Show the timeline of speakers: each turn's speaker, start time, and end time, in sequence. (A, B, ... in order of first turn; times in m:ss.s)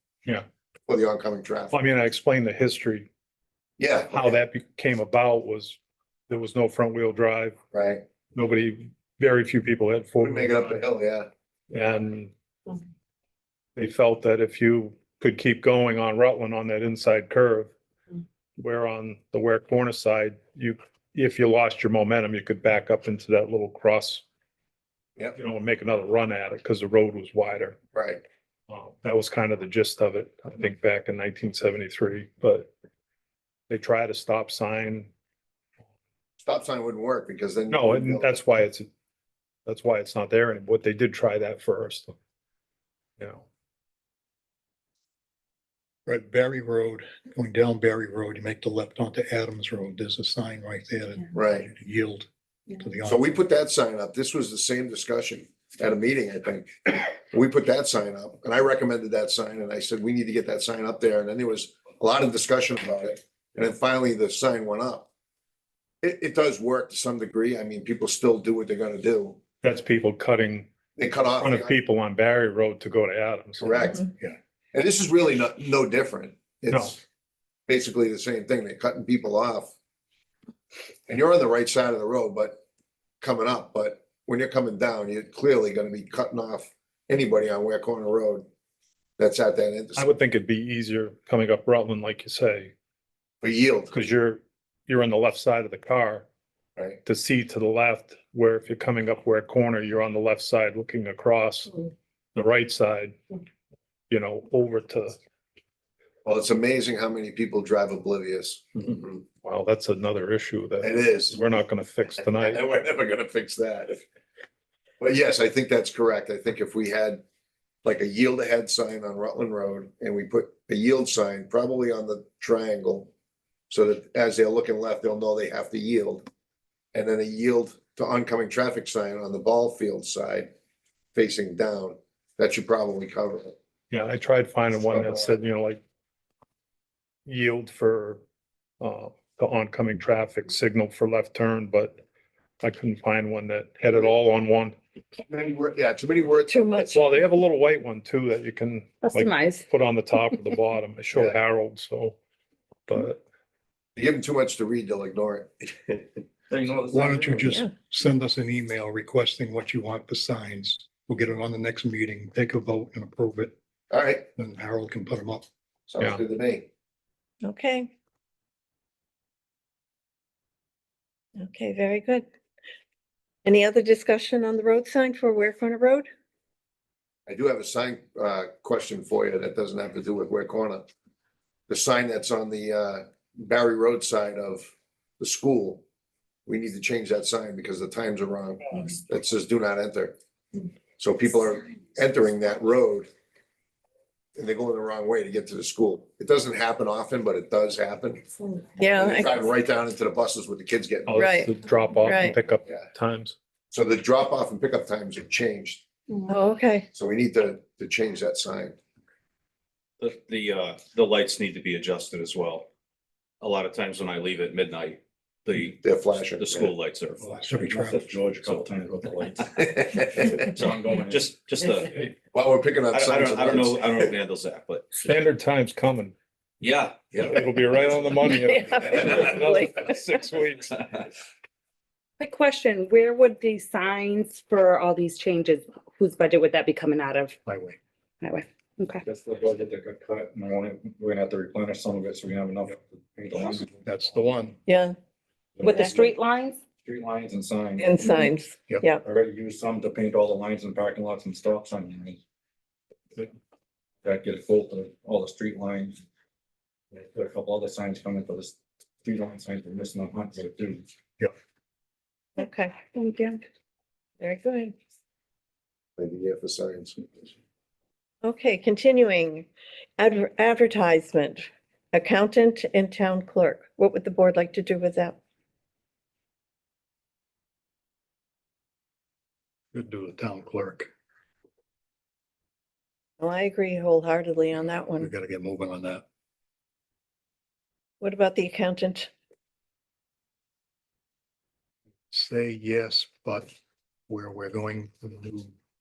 0:00.9-0:01.8 A
0:01.7-0:03.1 B
0:03.8-0:04.4 A
0:04.1-0:05.8 B
0:06.3-0:07.6 B
0:07.7-0:08.0 A
0:08.3-0:10.8 B
0:10.2-0:11.3 A
0:11.7-0:12.3 B
0:13.8-0:17.7 B
0:18.6-0:24.2 B
0:25.3-0:27.8 B
0:27.9-0:28.2 A
0:28.7-0:32.7 B
0:33.7-0:35.1 B
0:36.4-0:38.3 A
0:37.7-0:38.9 B
0:39.6-0:42.1 B
0:43.2-0:43.4 B
0:46.0-0:53.2 C
0:51.3-0:51.7 A
0:53.0-0:56.7 A
0:57.3-1:05.1 A
1:06.0-1:09.4 A
1:09.6-1:10.7 B
1:11.0-1:11.7 A
1:11.4-1:13.8 B
1:13.6-1:14.1 A
1:14.7-1:17.0 A
1:17.7-1:19.7 A
1:21.1-1:22.6 A
1:23.2-1:28.4 A
1:29.2-1:30.1 A
1:30.0-1:32.7 B
1:33.4-1:33.9 A
1:33.9-1:36.2 B
1:37.0-1:43.2 B
1:44.1-1:45.2 B
1:46.2-1:49.2 A
1:49.4-1:52.6 B
1:50.8-1:51.4 A
1:52.2-1:54.0 A
1:55.0-1:57.2 A
1:57.8-2:03.1 A
2:03.7-2:06.2 A
2:06.9-2:10.5 A
2:11.1-2:13.5 A
2:13.9-2:15.8 B
2:17.2-2:18.2 B
2:18.8-2:22.0 B
2:22.6-2:24.7 B
2:25.3-2:27.0 A
2:26.5-2:27.0 D
2:26.8-2:32.2 B
2:29.0-2:29.6 E
2:32.9-2:33.2 B
2:34.0-2:36.0 A
2:36.5-2:37.6 F
2:36.9-2:43.5 C
2:43.9-2:44.2 A
2:44.3-2:45.4 C
2:45.9-2:46.6 A
2:47.4-2:47.9 D
2:51.4-2:52.2 D
2:53.4-2:56.0 D
2:57.3-3:00.8 A
3:01.7-3:04.7 A
3:05.2-3:05.8 A
3:06.5-3:10.1 A
3:11.0-3:13.1 A
3:14.4-3:18.2 A
3:18.8-3:19.3 D
3:18.9-3:21.3 A
3:21.1-3:23.3 B
3:21.2-3:21.5 D
3:22.0-3:22.4 D
3:23.7-3:25.8 A
3:26.3-3:26.8 D
3:26.9-3:28.8 A
3:30.0-3:32.7 G
3:33.4-3:37.5 G
3:35.8-3:36.7 A
3:37.2-3:38.1 C
3:37.5-3:41.4 F
3:38.0-3:38.8 G
3:39.7-3:40.3 A
3:40.5-3:42.1 G
3:42.3-3:44.1 A
3:42.9-3:44.9 G
3:45.0-3:46.1 B
3:46.6-3:47.3 G
3:47.1-3:50.8 B
3:48.4-3:49.8 D
3:52.2-3:57.3 E
3:57.4-3:57.8 C
3:58.2-3:59.0 E
3:59.0-4:04.2 F
4:03.4-4:04.6 C
4:04.6-4:05.0 D
4:05.6-4:06.1 F
4:05.6-4:06.6 E
4:06.8-4:08.0 F
4:07.8-4:09.0 D
4:09.0-4:12.2 F
4:14.0-4:16.0 F
4:16.9-4:20.9 F
4:22.4-4:22.8 D
4:22.9-4:23.4 E
4:24.2-4:24.7 D
4:26.0-4:27.3 A
4:28.2-4:35.2 D
4:39.7-4:40.9 C
4:43.2-4:45.1 D
4:45.0-4:46.0 C
4:48.0-4:49.1 D
4:52.1-4:53.5 C
4:54.1-4:55.5 C